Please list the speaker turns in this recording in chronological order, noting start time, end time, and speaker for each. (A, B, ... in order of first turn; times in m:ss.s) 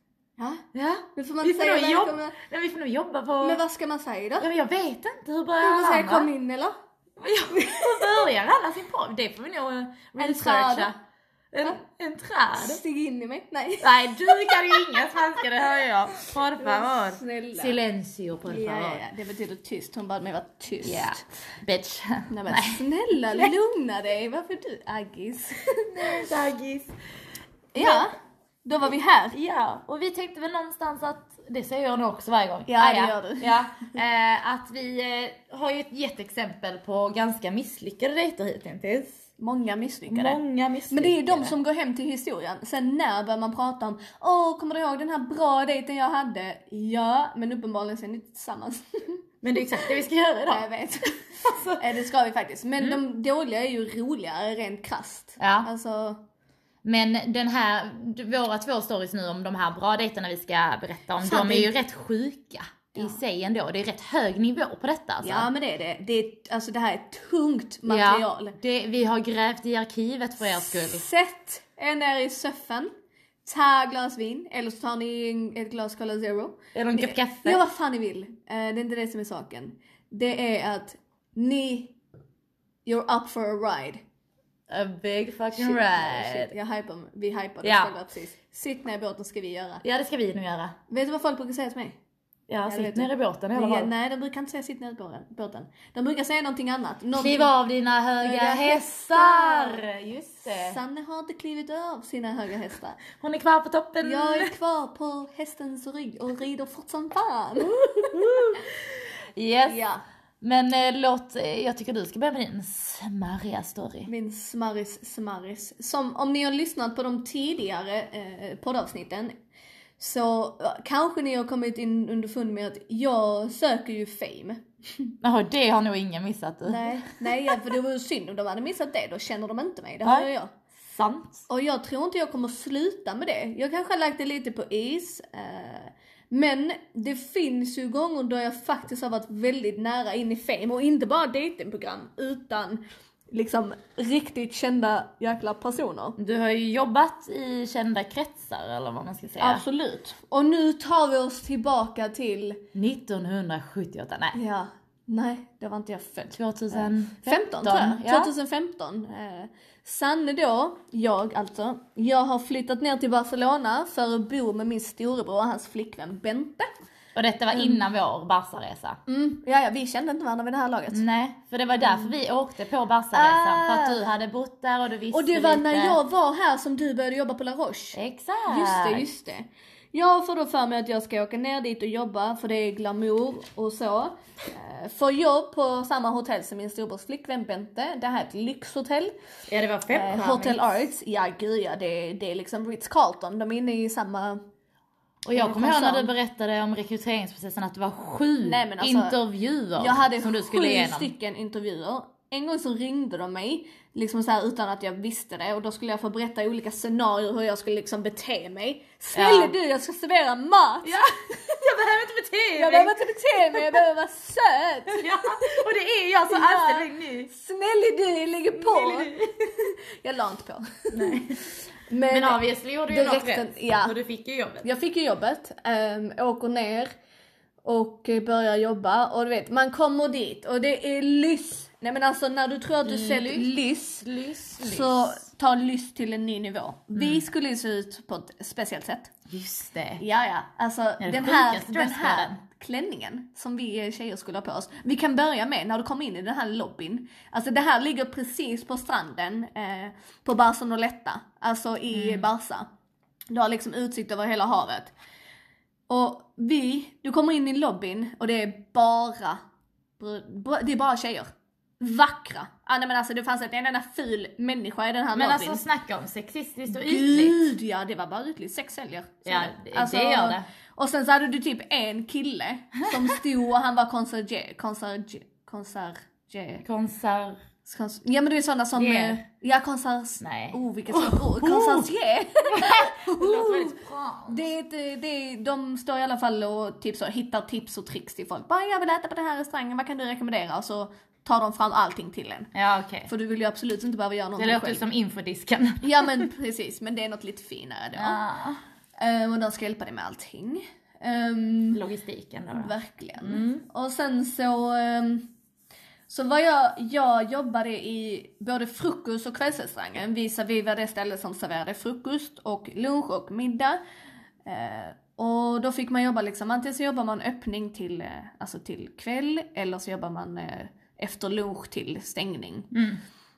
0:00.4-0:02.4 A
0:00.7-0:03.6 B
0:03.4-0:04.5 A
0:04.4-0:06.3 B
0:05.6-0:06.7 A
0:07.2-0:10.9 B
0:07.6-0:08.0 A
0:10.2-0:10.9 A
0:11.5-0:12.8 B
0:12.5-0:15.4 A
0:13.8-0:19.0 B
0:16.2-0:17.8 A
0:18.5-0:21.2 A
0:20.8-0:23.5 B
0:22.3-0:26.2 A
0:25.8-0:26.9 B
0:27.7-0:29.4 A
0:27.8-0:28.0 B
0:29.3-0:39.2 B
0:32.7-0:33.6 A
0:39.4-0:40.4 A
0:40.1-0:41.5 B
0:40.9-0:49.7 A
0:49.4-0:50.7 B
0:50.5-0:56.2 A
0:51.4-0:51.8 B
0:55.4-0:55.7 B
0:56.8-1:05.5 B
1:01.2-1:01.7 A
1:05.2-1:08.6 A
1:07.9-1:11.0 B
1:10.6-1:12.9 A
1:13.4-1:22.0 A
1:16.7-1:17.6 B
1:22.8-1:24.0 A
1:24.7-1:26.5 B
1:25.5-1:29.8 A
1:27.6-1:27.9 B
1:29.8-1:30.8 B
1:30.9-1:32.0 A
1:32.5-1:33.9 B
1:32.7-1:37.5 A
1:37.1-1:40.8 B
1:38.2-1:39.8 A
1:40.4-1:43.0 A
1:43.1-1:44.5 B
1:44.0-1:48.6 A
1:48.1-1:48.7 B
1:49.4-1:49.8 B
1:49.7-1:50.0 A
1:50.4-1:54.1 B
1:54.1-1:59.3 A
2:00.0-2:05.1 A
2:05.2-2:07.6 B
2:06.6-2:10.5 A
2:10.0-2:10.3 B
2:10.8-2:11.4 B
2:11.5-2:26.2 A
2:26.2-2:29.6 B
2:29.4-2:32.6 A
2:32.7-2:34.4 B
2:34.3-2:46.7 A
2:36.3-2:38.3 B
2:47.1-2:49.0 B
2:47.5-2:47.8 A
2:49.1-2:51.0 A
2:50.9-2:56.0 B
2:51.8-2:52.1 A
2:53.1-2:54.0 A
2:55.1-3:09.1 A
2:57.9-2:59.0 B
3:09.5-3:10.7 B
3:09.9-3:14.4 A
3:15.2-3:21.1 B
3:15.3-3:16.1 A
3:18.4-3:19.2 A
3:19.8-3:31.6 A
3:29.1-3:29.5 B
3:30.8-3:33.0 B
3:32.6-3:35.6 A
3:33.5-3:33.8 B
3:34.9-3:37.3 B
3:36.3-3:44.0 A
3:38.6-3:39.3 B
3:40.9-3:41.5 B
3:42.1-3:44.6 B
3:44.6-3:46.9 A
3:47.6-3:54.1 A
3:52.8-3:53.5 B
3:54.0-3:55.2 B
3:54.6-3:59.1 A
3:57.0-3:57.2 B
3:59.3-4:00.0 B
4:00.0-4:12.6 A
4:01.0-4:02.4 B
4:11.9-4:12.3 B
4:13.3-4:14.9 A
4:15.9-4:19.4 A
4:20.0-4:21.3 A
4:21.8-4:25.6 A
4:25.1-4:27.4 B
4:26.7-4:36.6 A
4:29.2-4:30.4 B
4:36.6-4:37.4 B
4:37.6-4:52.5 A
4:38.8-4:39.2 B
4:40.2-4:41.9 B
4:42.5-4:44.5 B
4:52.5-4:53.1 B
4:53.0-4:54.8 A
4:54.4-4:56.3 B
4:55.8-4:58.2 A
4:58.0-4:58.6 B
4:59.0-5:01.8 A
5:01.7-5:03.6 B
5:02.5-5:05.3 A
5:06.1-5:13.8 A
5:14.4-5:22.7 A
5:22.7-5:23.0 B